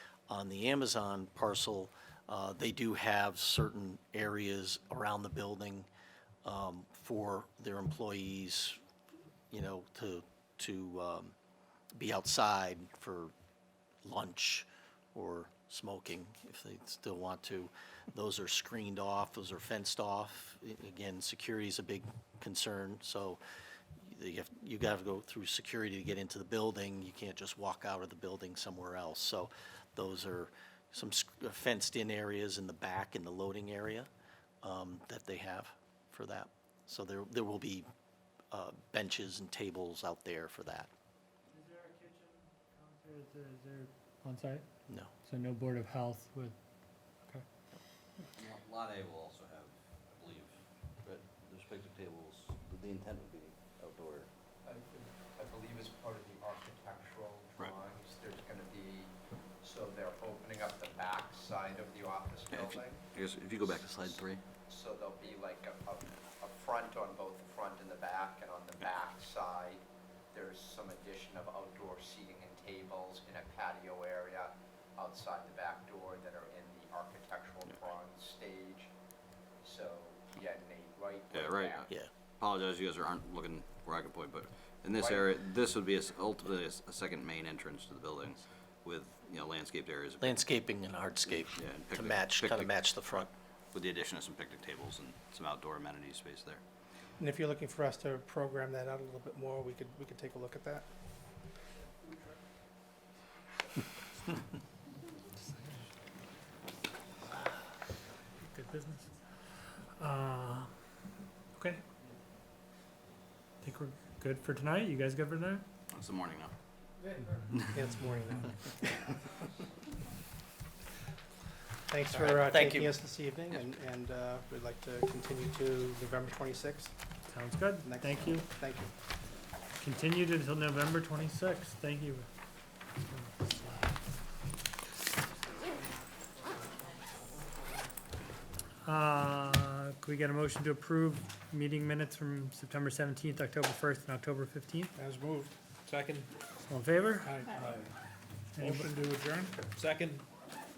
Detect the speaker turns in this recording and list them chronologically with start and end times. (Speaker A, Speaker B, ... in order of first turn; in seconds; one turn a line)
Speaker A: 0.3-5.9
Speaker A: 6.5-8.8
Speaker A: 9.5-11.3
Speaker A: 11.9-13.3
Speaker A: 14.0-23.4
Speaker A: 24.0-34.1
Speaker A: 34.6-37.9
Speaker A: 38.5-40.9
Speaker B: 41.5-44.7
Speaker B: 45.2-46.6
Speaker C: 48.4-54.3
Speaker D: 54.6-78.9
Speaker C: 63.2-64.4
Speaker D: 79.6-81.9
Speaker C: 81.3-81.8
Speaker C: 82.4-90.4
Speaker D: 85.0-85.3
Speaker A: 90.2-93.3
Speaker C: 91.4-96.6
Speaker E: 97.2-100.9
Speaker B: 108.4-109.1
Speaker B: 110.0-110.7
Speaker B: 111.5-111.8
Speaker B: 113.6-115.7
Speaker C: 115.9-116.5
Speaker E: 117.7-119.1
Speaker E: 121.9-127.0
Speaker A: 122.1-123.0
Speaker B: 127.3-128.5
Speaker E: 127.8-128.9
Speaker B: 129.8-132.3
Speaker B: 133.1-133.9
Speaker B: 138.8-144.9
Speaker E: 144.9-145.6
Speaker C: 145.9-146.3
Speaker B: 146.7-147.4
Speaker E: 147.2-147.8
Speaker B: 148.6-148.9
Speaker E: 148.6-149.6
Speaker C: 149.7-150.2